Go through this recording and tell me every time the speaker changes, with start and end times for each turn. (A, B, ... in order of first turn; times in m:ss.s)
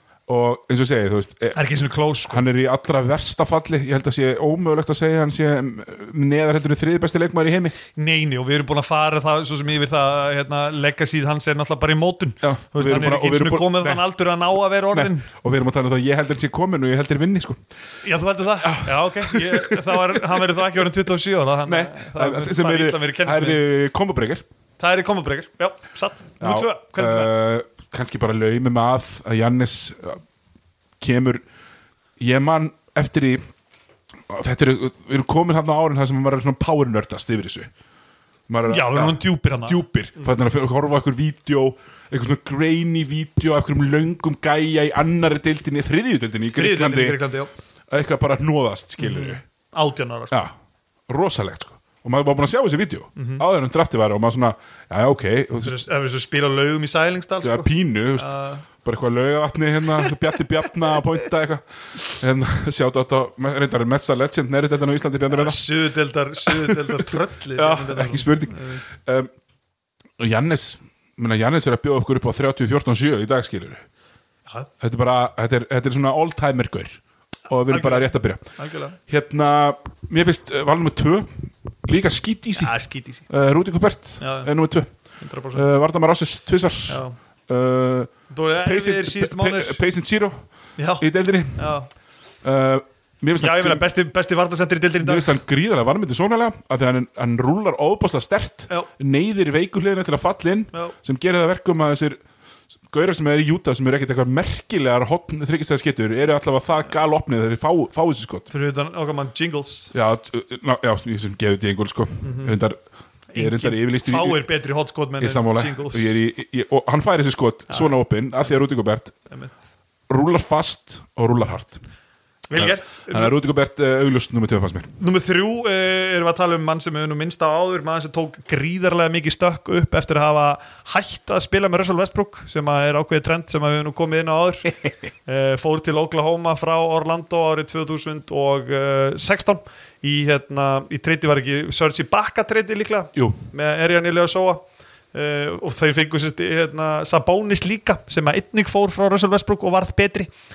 0:00.3-0:01.6 A
0:01.5-0:02.4 B
0:02.3-0:07.8 A
0:08.0-0:15.3 B
0:12.4-0:14.0 A
0:14.9-0:17.6 A
0:18.0-0:23.6 B
0:18.6-0:20.6 A
0:21.7-0:24.4 A
0:24.8-0:27.3 B
0:26.4-0:30.2 A
0:31.0-0:31.4 A
0:32.2-0:33.4 A
0:34.3-0:37.7 A
0:38.5-0:47.2 A
0:38.7-0:39.8 B
0:46.5-0:47.5 B
0:47.9-0:49.4 A
0:49.0-0:50.4 B
0:51.1-0:55.8 A
0:53.2-0:53.4 B
0:55.6-0:58.6 B
0:57.4-1:05.6 A
1:05.3-1:08.8 B
1:06.5-1:09.3 A
1:10.2-1:13.8 A
1:14.8-1:18.5 A
1:17.7-1:19.0 B
1:19.1-1:22.8 A
1:22.6-1:23.3 B
1:23.3-1:24.9 A
1:24.2-1:24.5 B
1:25.2-1:25.7 B
1:25.5-1:30.4 A
1:26.9-1:27.2 B
1:28.3-1:29.8 B
1:30.8-1:31.9 B
1:31.0-1:31.7 A
1:32.4-1:33.8 A
1:33.4-1:35.4 B
1:35.0-1:42.2 A
1:42.9-1:48.5 A
1:48.5-1:49.9 B
1:49.9-1:52.8 A
1:52.2-1:52.6 B
1:53.3-1:54.4 A
1:53.3-1:56.2 B
1:55.2-1:59.1 A
1:57.7-1:58.0 B
1:59.3-1:59.6 B
2:00.1-2:01.8 A
2:02.5-2:03.3 B
2:02.5-2:04.9 A
2:05.0-2:14.7 B
2:15.3-2:30.3 B